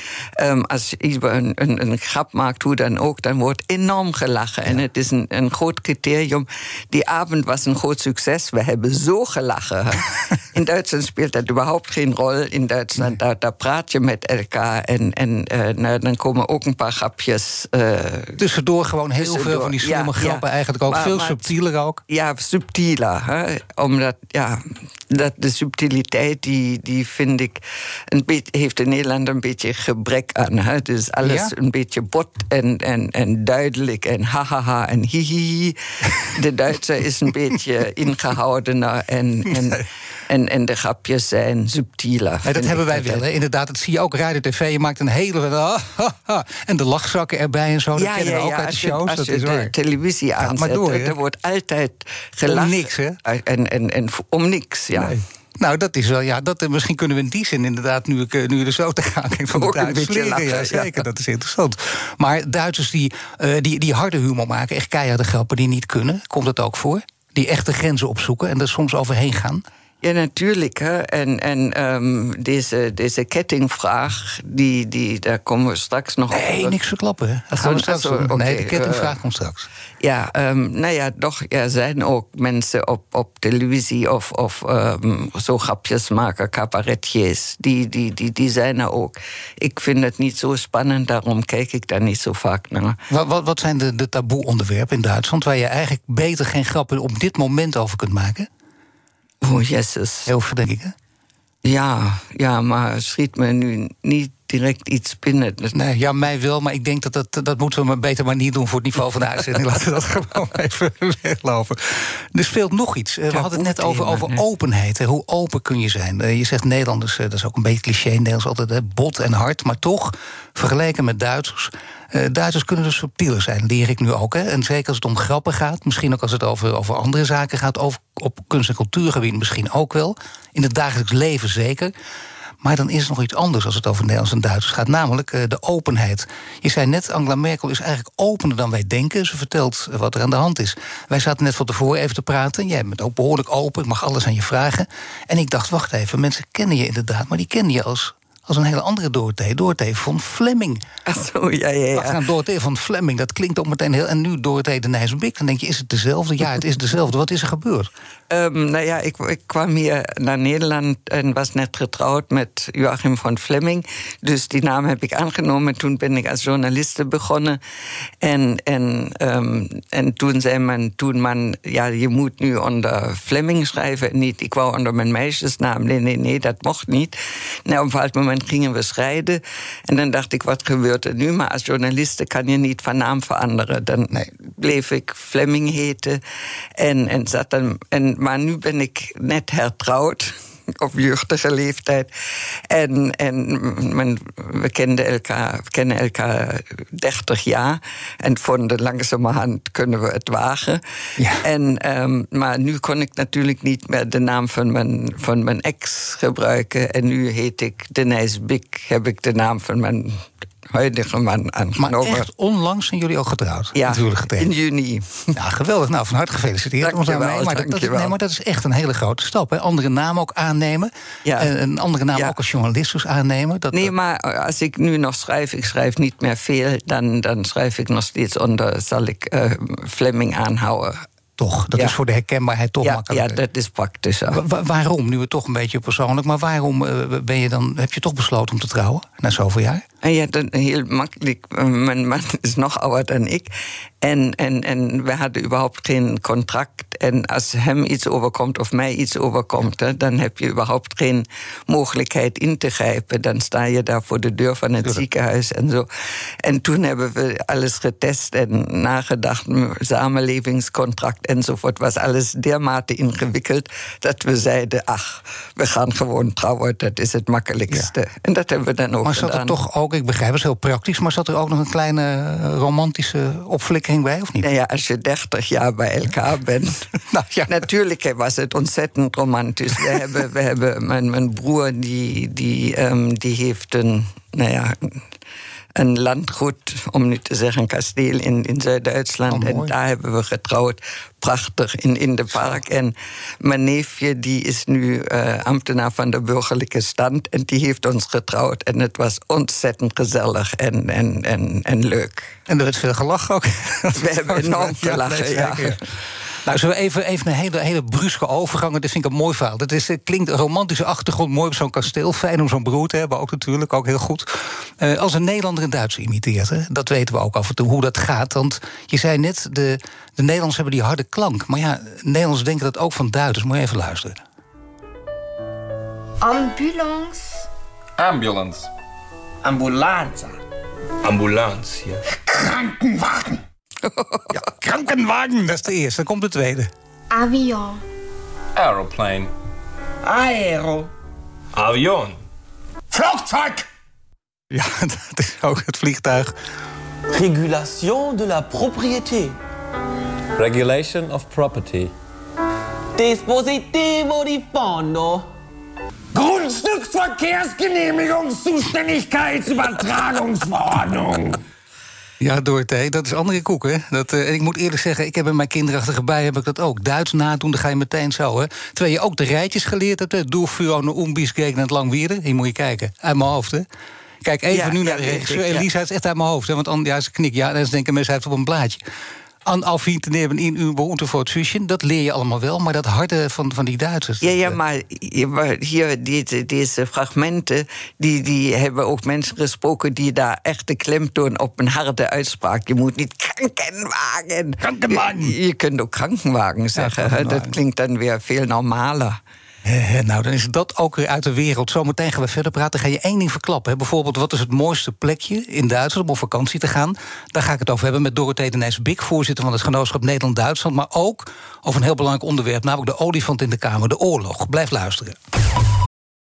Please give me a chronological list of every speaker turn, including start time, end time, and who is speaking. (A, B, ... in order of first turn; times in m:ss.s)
0:00.4-0:18.4 A
0:18.4-0:22.0 B
0:19.2-0:21.5 A
0:22.1-0:43.2 A
0:31.2-0:31.5 B
0:42.4-0:49.7 B
0:48.0-0:55.2 A
0:50.4-0:51.2 B
0:52.4-0:53.2 B
0:55.0-1:09.6 B
0:59.5-1:01.0 A
1:10.0-1:16.8 A
1:16.3-1:19.7 B
1:17.5-1:19.1 A
1:20.0-1:33.0 A
1:33.1-1:38.5 B
1:39.4-1:40.3 A
1:40.3-1:40.9 B
1:41.6-1:45.8 A
1:45.7-2:11.9 B
1:53.3-1:54.4 A
2:12.6-2:30.8 B
2:31.1-2:32.2 A
2:31.9-2:37.9 B
2:38.3-2:47.6 A
2:48.2-2:57.1 A
2:57.7-3:06.2 A
3:06.8-3:12.1 A
3:12.7-3:20.8 A
3:21.2-3:21.4 B
3:21.3-3:32.3 A
3:31.8-3:34.5 B
3:33.7-3:35.3 A
3:35.4-3:43.9 B
3:36.8-3:38.1 A
3:41.2-3:41.5 A
3:43.7-3:51.0 A
3:51.4-3:53.4 B
3:52.8-3:54.4 A
3:54.3-3:59.8 B
4:00.0-4:03.5 A
4:04.0-4:15.9 A
4:16.4-4:29.6 A
4:29.0-4:34.5 B
4:34.4-4:36.8 A
4:37.1-4:37.6 B
4:37.5-4:45.0 A
4:39.8-4:40.1 B
4:45.8-5:02.3 A
4:49.3-4:49.7 B
5:02.5-5:05.8 B
5:03.9-5:05.8 A
5:06.4-5:24.2 B
5:26.2-5:27.5 C
5:28.0-5:28.7 D
5:29.4-5:30.4 E
5:31.0-5:32.0 D
5:32.3-5:33.4 E
5:33.8-5:34.3 A
5:34.3-5:36.7 B
5:37.1-5:37.8 C
5:38.5-5:39.3 D
5:40.0-5:40.9 E
5:41.5-5:42.2 D
5:42.9-5:43.6 E
5:44.5-5:46.3 B
5:47.1-5:49.3 E
5:50.4-5:51.9 D
5:53.0-5:55.3 E
5:56.1-6:01.4 E
6:02.2-6:13.7 B
6:14.2-6:18.8 B
6:14.5-6:15.7 A
6:19.4-6:24.6 B
6:24.2-6:39.2 A
6:34.6-6:35.4 B
6:36.8-6:37.5 B
6:39.6-6:55.2 B